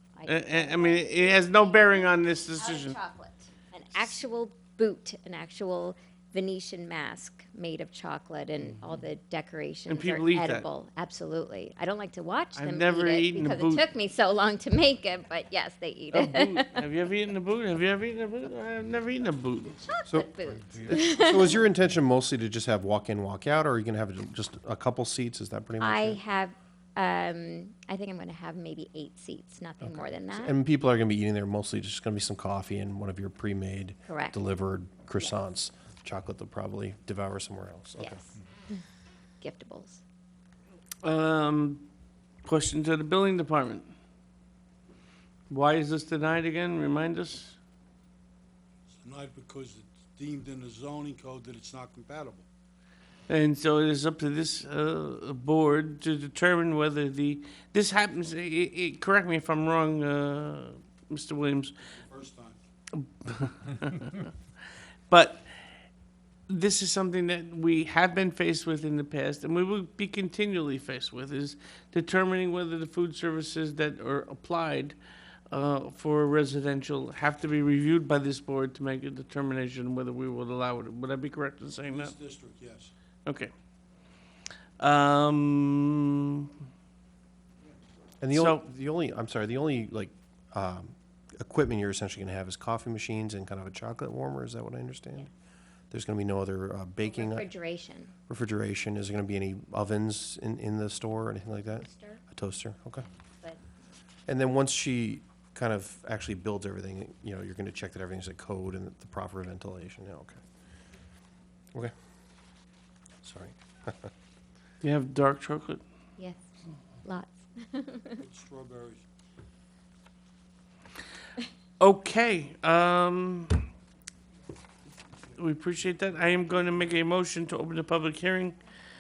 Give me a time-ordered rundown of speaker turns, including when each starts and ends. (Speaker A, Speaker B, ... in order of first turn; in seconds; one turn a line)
Speaker A: 0.2-16.9
Speaker B: 0.2-3.0
Speaker B: 3.9-4.2
Speaker B: 9.9-10.7
Speaker B: 12.6-13.8
Speaker B: 16.1-19.9
Speaker A: 19.9-21.6
Speaker C: 20.1-26.2
Speaker A: 25.8-30.6
Speaker C: 29.8-38.2
Speaker A: 34.1-34.4
Speaker A: 38.0-38.8
Speaker A: 39.4-40.0
Speaker B: 41.0-41.9
Speaker B: 42.4-43.9
Speaker B: 45.5-47.6
Speaker D: 49.0-52.5
Speaker B: 53.3-61.7
Speaker D: 61.9-62.6
Speaker B: 63.0-64.3
Speaker B: 65.1-65.5
Speaker B: 66.5-75.0
Speaker B: 75.5-82.2
Speaker D: 81.9-82.9
Speaker B: 83.3-83.5
Speaker B: 84.8-86.5
Speaker C: 88.2-95.3
Speaker B: 88.3-88.6
Speaker C: 95.9-97.5
Speaker A: 97.0-98.1
Speaker C: 98.3-103.1
Speaker A: 101.8-102.2
Speaker C: 104.3-110.4
Speaker C: 113.2-114.1
Speaker B: 114.8-115.8
Speaker A: 117.0-118.2
Speaker D: 118.2-119.0
Speaker B: 121.8-123.7
Speaker B: 125.4-128.6